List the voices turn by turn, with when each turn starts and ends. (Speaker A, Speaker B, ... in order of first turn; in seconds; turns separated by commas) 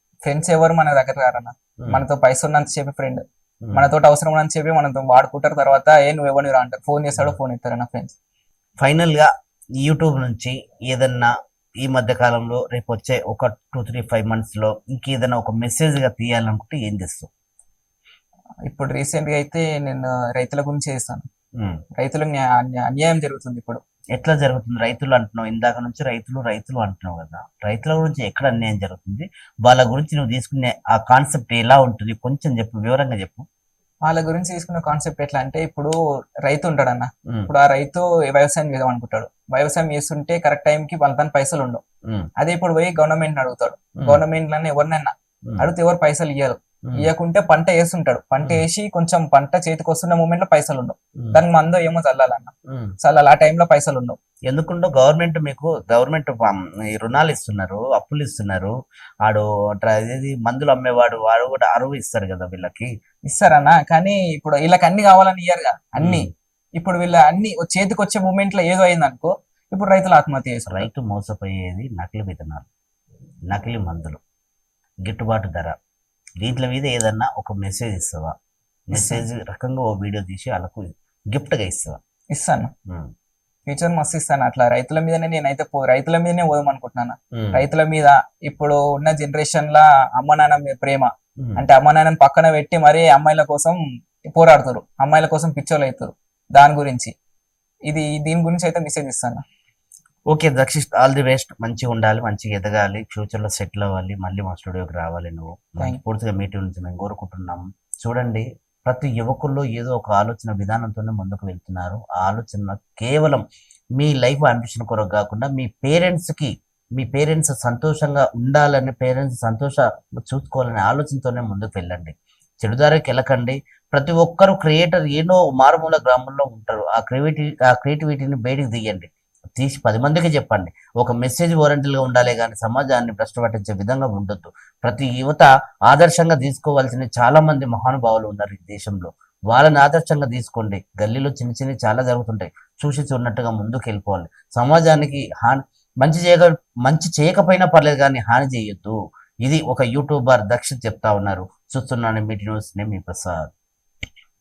Speaker A: 0.2-8.2, Speaker B: 3.6-3.9, Speaker B: 8.8-17.3, Speaker A: 18.7-21.3, Speaker B: 21.6-21.8, Speaker A: 22.0-23.8, Speaker B: 24.1-33.5, Speaker A: 34.0-41.8, Speaker B: 37.3-37.5, Speaker B: 42.0-42.3, Speaker A: 42.4-54.2, Speaker B: 44.0-44.2, Speaker B: 46.9-47.1, Speaker B: 51.2-51.4, Speaker B: 52.7-52.9, Speaker B: 54.5-62.9, Speaker A: 63.3-70.9, Speaker B: 66.0-66.3, Speaker B: 70.7-72.7, Speaker B: 73.5-74.2, Speaker B: 75.0-75.8, Speaker B: 76.4-78.3, Speaker B: 78.9-82.0, Speaker A: 78.9-79.2, Speaker A: 82.3-82.7, Speaker B: 82.9-83.1, Speaker A: 83.7-93.8, Speaker B: 87.3-87.6, Speaker B: 91.4-91.6, Speaker A: 94.3-97.1, Speaker A: 97.9-99.4, Speaker B: 100.3-113.5, Speaker B: 114.0-153.5